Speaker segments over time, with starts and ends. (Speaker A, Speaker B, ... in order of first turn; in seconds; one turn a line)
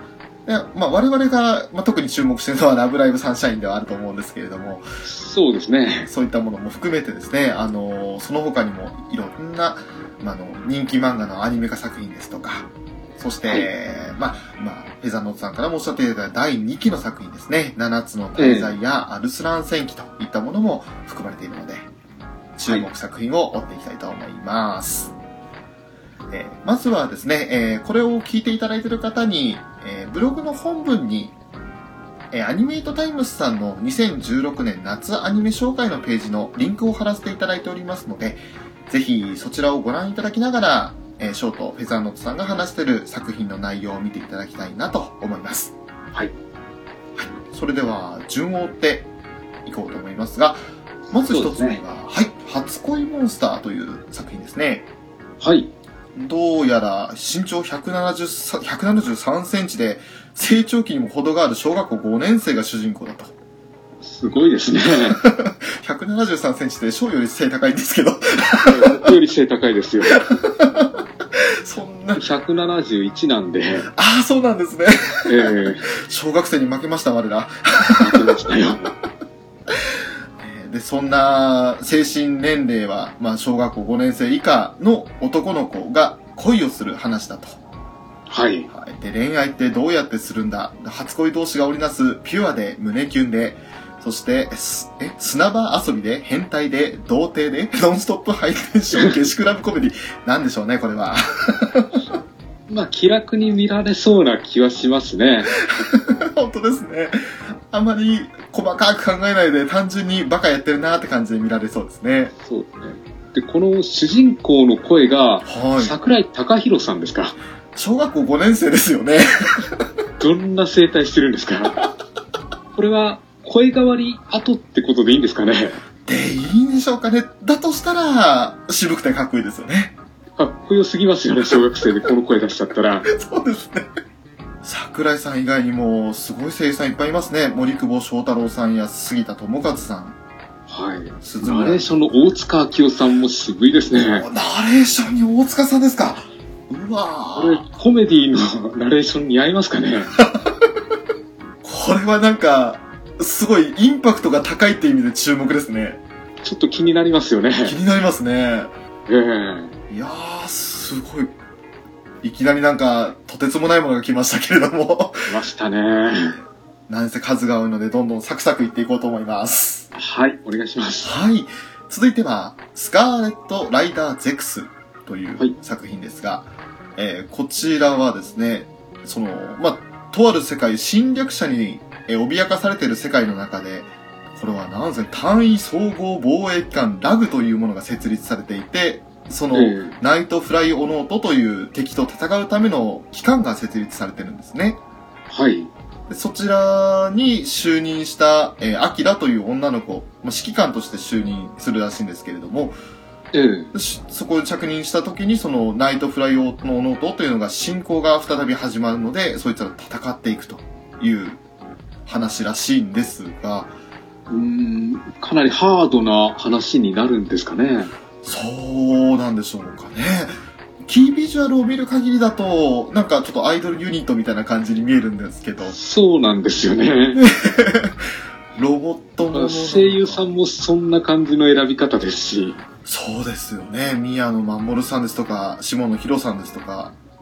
Speaker A: 0.5-4.8
Speaker B: 5.0-6.1
Speaker A: 6.1-21.9
Speaker B: 18.4-18.7
Speaker A: 22.6-25.1
Speaker A: 26.3-31.4
Speaker A: 32.3-45.7
Speaker A: 47.2-49.1
Speaker A: 49.6-50.6
Speaker A: 51.1-54.9
Speaker B: 51.3-51.8
Speaker B: 55.4-55.7
Speaker A: 56.1-63.3
Speaker B: 64.0-65.2
Speaker A: 64.9-69.1
Speaker B: 68.7-70.3
Speaker A: 70.1-72.2
Speaker B: 72.2-73.9
Speaker A: 73.9-78.5
Speaker B: 75.3-75.9
Speaker B: 77.9-78.9
Speaker A: 79.7-87.6
Speaker B: 88.3-88.7
Speaker A: 88.7-102.1
Speaker B: 102.7-105.6
Speaker A: 105.6-107.2
Speaker A: 107.7-112.3
Speaker B: 112.4-117.4
Speaker A: 115.5-116.0
Speaker A: 117.8-119.8
Speaker B: 120.2-121.8
Speaker B: 122.8-125.8
Speaker A: 126.1-130.0
Speaker B: 130.4-133.1
Speaker A: 133.1-133.9
Speaker A: 134.6-140.2
Speaker B: 140.7-144.3
Speaker A: 141.2-141.8
Speaker A: 143.9-147.6
Speaker B: 147.4-150.1
Speaker A: 150.2-150.6
Speaker A: 151.6-156.0
Speaker B: 156.4-157.8
Speaker A: 157.6-158.7
Speaker B: 159.1-159.8
Speaker A: 159.9-161.3
Speaker A: 162.2-165.3
Speaker B: 165.3-166.4
Speaker A: 166.9-169.9
Speaker B: 169.9-171.1
Speaker A: 171.0-194.8
Speaker B: 189.5-190.0
Speaker B: 195.3-195.7
Speaker A: 196.1-202.8
Speaker B: 203.3-203.7
Speaker A: 203.7-211.4
Speaker A: 212.1-213.7
Speaker B: 214.3-217.9
Speaker A: 218.2-220.3
Speaker A: 220.8-225.8
Speaker B: 225.7-227.3
Speaker A: 227.2-228.0
Speaker A: 228.6-230.3
Speaker B: 229.3-232.6
Speaker A: 232.8-236.9